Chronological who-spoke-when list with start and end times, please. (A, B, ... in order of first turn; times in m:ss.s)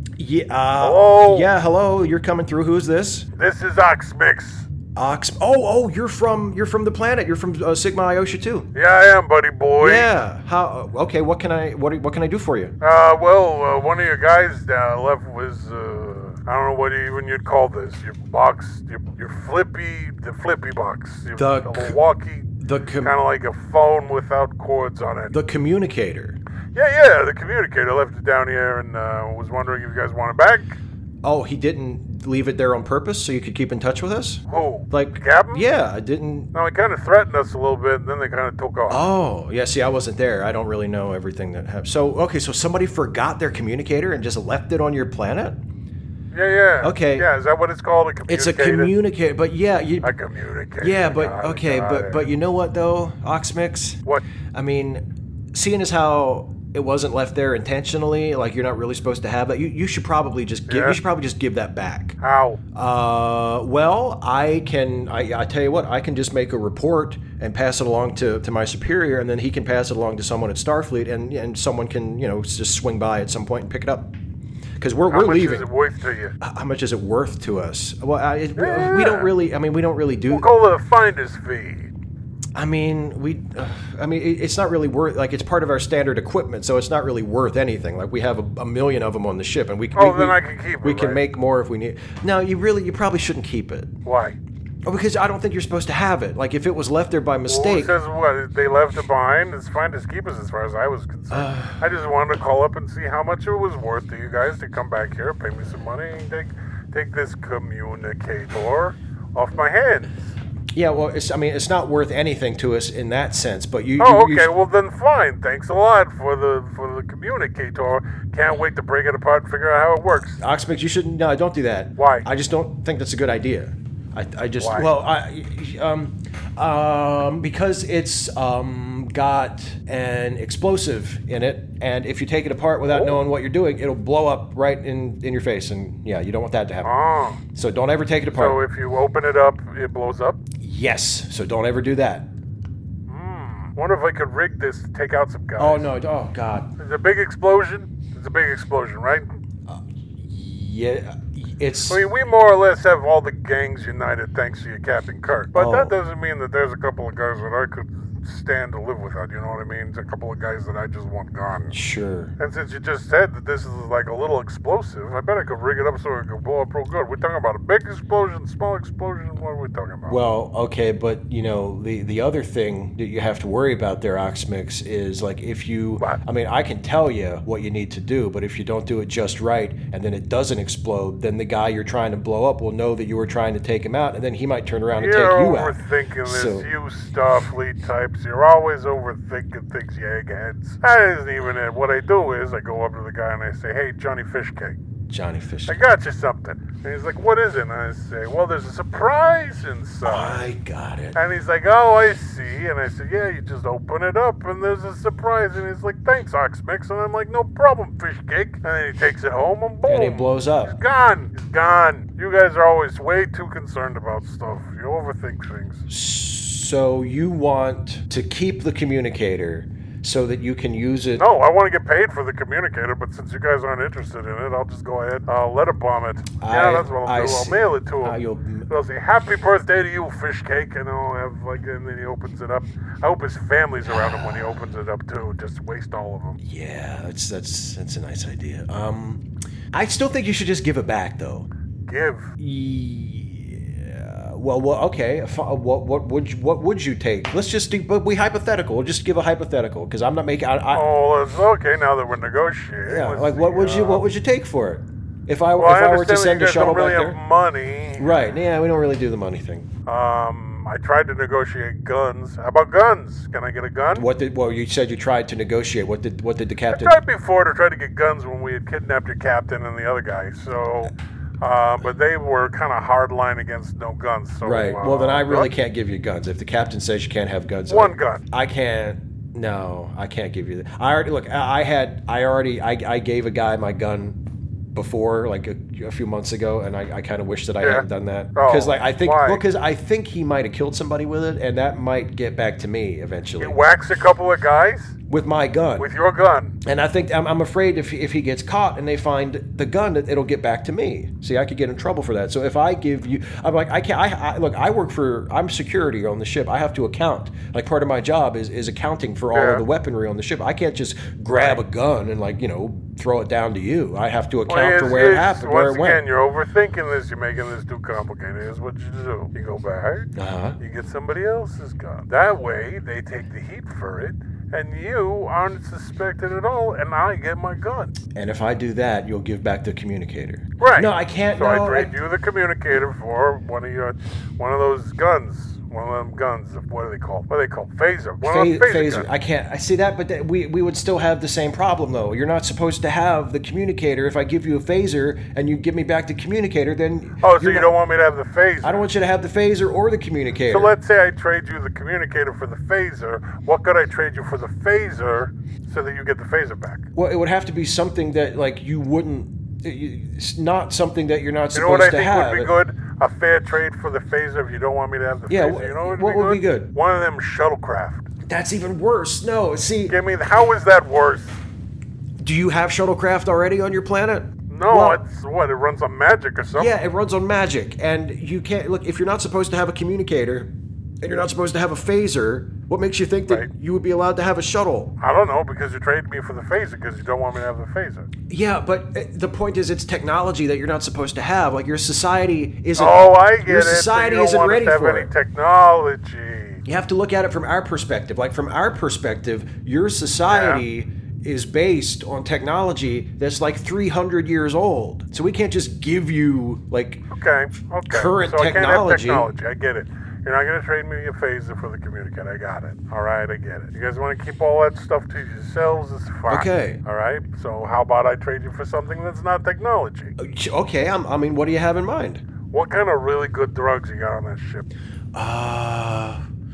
0:00.2-0:03.3 A
0:00.8-0:01.5 B
0:03.4-0:04.7 B
0:05.0-0:08.7 A
0:08.8-0:10.1 B
0:09.8-0:12.8 A
0:12.8-0:25.4 B
0:21.4-0:22.0 A
0:22.6-0:23.2 A
0:25.3-0:26.4 A
0:26.8-0:30.8 B
0:31.2-0:36.5 A
0:34.5-0:35.7 B
0:36.5-0:39.0 B
0:38.9-0:45.6 A
0:46.3-0:48.9 B
0:46.8-0:47.3 A
0:48.3-0:50.2 A
0:50.0-0:52.2 B
0:50.8-0:54.0 A
0:54.5-1:02.2 A
1:00.7-1:01.0 B
1:02.2-1:02.6 B
1:02.7-1:14.1 A
1:14.8-1:15.7 A
1:15.1-1:16.3 B
1:16.4-1:20.5 A
1:18.6-1:19.3 B
1:20.3-1:21.9 B
1:22.6-1:33.9 A
1:30.0-1:31.2 B
1:34.1-1:34.4 B
1:34.9-1:38.0 A
1:37.5-1:50.1 B
1:41.3-1:41.8 A
1:50.7-1:54.5 A
1:54.0-2:00.4 B
2:00.4-2:16.9 A
2:02.0-2:02.3 B
2:04.6-2:04.9 B
2:12.9-2:13.2 B
2:16.8-2:17.4 B
2:17.5-2:18.6 A
2:18.3-2:20.4 B
2:20.6-2:22.3 A
2:23.1-2:25.9 B
2:25.6-2:26.7 A
2:26.8-2:29.3 B
2:29.7-2:32.0 A
2:31.9-2:41.8 B
2:35.6-2:36.0 A
2:41.7-2:42.3 A
2:42.4-2:50.2 B
2:50.1-3:06.7 A
3:05.0-3:14.8 B
3:15.1-3:15.8 A
3:15.7-3:20.5 B
3:20.0-3:21.2 A
3:21.2-3:35.8 B
3:29.8-3:30.8 A
3:35.9-3:41.3 A
3:41.2-3:56.4 B
3:46.4-3:48.7 A
3:53.9-3:54.6 A
3:56.4-4:01.5 A
4:01.9-4:02.3 B
4:02.4-4:10.9 A
4:10.7-4:14.0 B
4:12.9-4:17.2 A
4:15.6-4:18.2 B
4:18.0-4:19.7 A
4:19.9-4:24.1 B
4:24.0-4:27.0 A
4:26.7-4:35.5 B
4:34.4-4:44.2 A
4:37.7-4:38.2 B
4:44.7-4:53.6 A
4:47.6-4:49.4 B
4:53.4-4:55.0 B
4:55.1-4:55.9 A
4:55.8-4:56.6 B
4:56.6-5:16.0 A
5:09.3-5:09.6 B
5:11.3-5:11.6 B
5:14.5-5:20.1 B
5:20.2-5:20.6 A
5:20.6-5:27.9 B
5:28.2-5:32.0 A
5:30.6-5:39.1 B
5:38.2-5:47.7 A
5:47.2-5:48.8 B
5:48.6-5:50.8 A
5:50.5-5:56.9 B
5:57.0-6:02.5 A
6:01.5-6:08.1 B
6:05.3-6:06.7 A
6:08.2-6:10.0 A
6:09.9-6:11.4 B
6:12.2-6:15.0 A
6:14.5-6:16.7 B
6:16.6-6:20.5 A
6:21.0-6:24.9 A
6:25.0-6:28.1 B
6:28.3-6:35.1 A
6:32.8-6:36.6 B
6:36.6-6:47.0 A
6:40.3-6:40.6 B
6:47.1-7:00.1 B
6:47.9-6:49.3 A
6:56.3-6:56.8 A
7:00.2-7:02.2 A
7:02.5-7:04.7 B
7:05.1-7:06.2 A